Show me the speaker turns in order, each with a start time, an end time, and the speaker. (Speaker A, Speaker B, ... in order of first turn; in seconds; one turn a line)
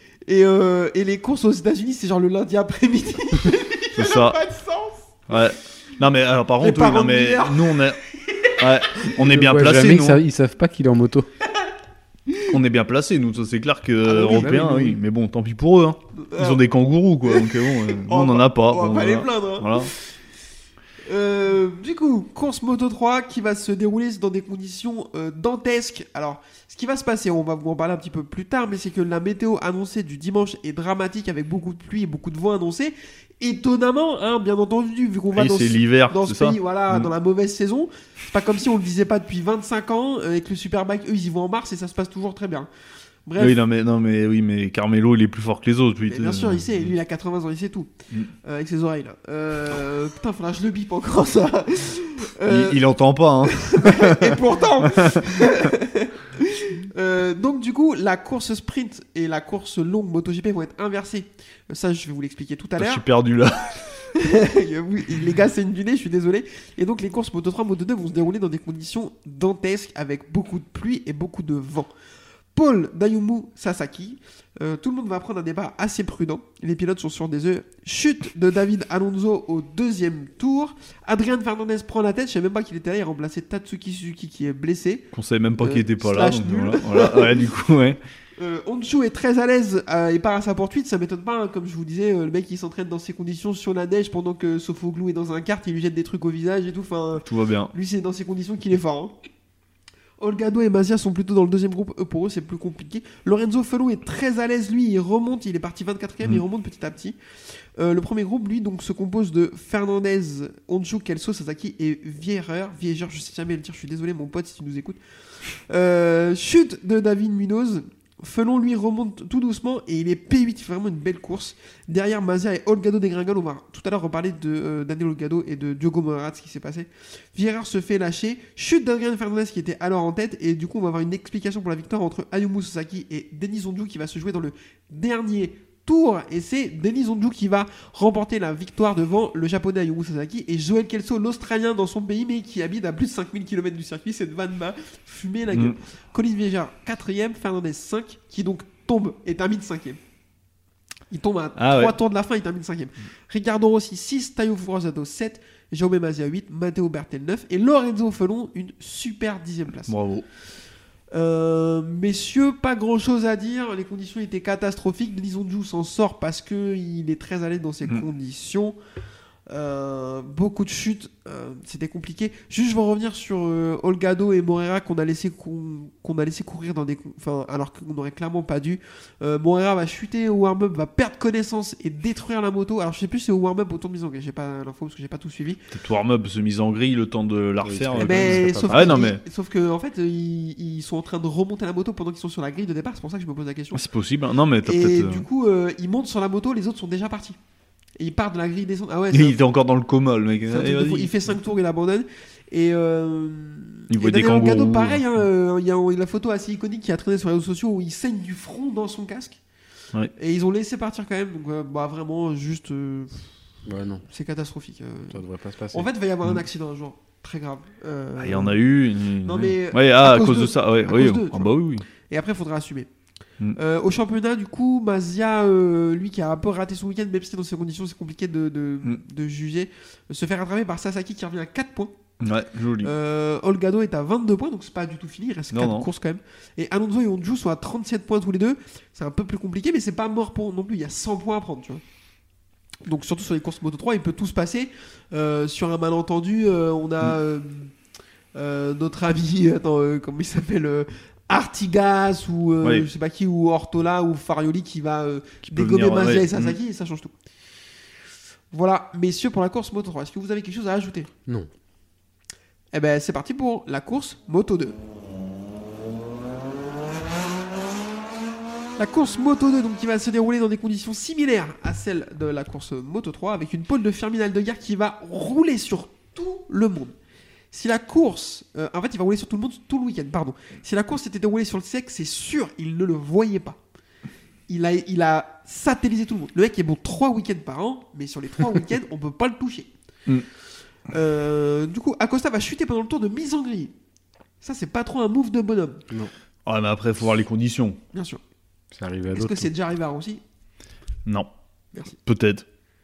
Speaker A: 0.3-5.2
Speaker B: 4.0-4.4
Speaker B: 5.3-8.0
Speaker A: 6.6-7.9
Speaker B: 8.6-10.2
Speaker C: 9.2-11.3
Speaker B: 12.5-19.9
Speaker A: 14.0-14.9
Speaker C: 14.3-14.9
Speaker A: 16.2-16.6
Speaker A: 17.2-20.0
Speaker A: 21.1-42.7
Speaker B: 35.3-37.1
Speaker A: 43.2-43.6
Speaker B: 43.4-46.9
Speaker A: 46.1-47.9
Speaker A: 48.4-52.8
Speaker B: 52.5-55.5
Speaker A: 53.4-63.0
Speaker B: 62.8-63.9
Speaker A: 64.1-71.9
Speaker A: 72.5-87.5
Speaker B: 85.1-88.0
Speaker A: 88.4-99.1
Speaker B: 97.2-97.7
Speaker A: 100.2-107.2
Speaker A: 107.8-115.0
Speaker A: 115.7-150.0
Speaker B: 145.5-145.8
Speaker A: 151.1-159.9
Speaker B: 151.6-151.9
Speaker B: 159.9-160.2
Speaker A: 161.1-168.8
Speaker A: 169.5-185.6
Speaker B: 185.7-189.2
Speaker C: 187.6-189.0
Speaker A: 188.0-193.8
Speaker B: 193.7-195.3
Speaker A: 194.6-197.4
Speaker A: 198.0-199.4
Speaker B: 199.1-201.3
Speaker A: 200.5-209.4
Speaker B: 203.9-205.0
Speaker A: 210.2-213.2
Speaker C: 213.7-214.0
Speaker A: 214.1-215.2
Speaker C: 215.1-215.9
Speaker A: 215.7-218.6
Speaker B: 218.2-221.8
Speaker A: 219.2-221.6
Speaker A: 222.1-222.9
Speaker A: 223.5-231.9
Speaker B: 232.2-232.9
Speaker A: 232.8-241.8
Speaker B: 235.5-235.9
Speaker A: 242.8-247.7
Speaker A: 248.3-257.1
Speaker B: 252.6-252.9
Speaker B: 255.4-256.6
Speaker A: 258.5-261.1
Speaker A: 262.7-264.8
Speaker A: 268.8-276.9
Speaker A: 277.5-283.6
Speaker A: 284.5-289.7
Speaker A: 290.9-293.7
Speaker A: 294.4-295.8
Speaker B: 296.4-297.8
Speaker A: 297.9-298.2
Speaker C: 298.7-299.5
Speaker A: 299.1-300.2
Speaker B: 302.0-302.4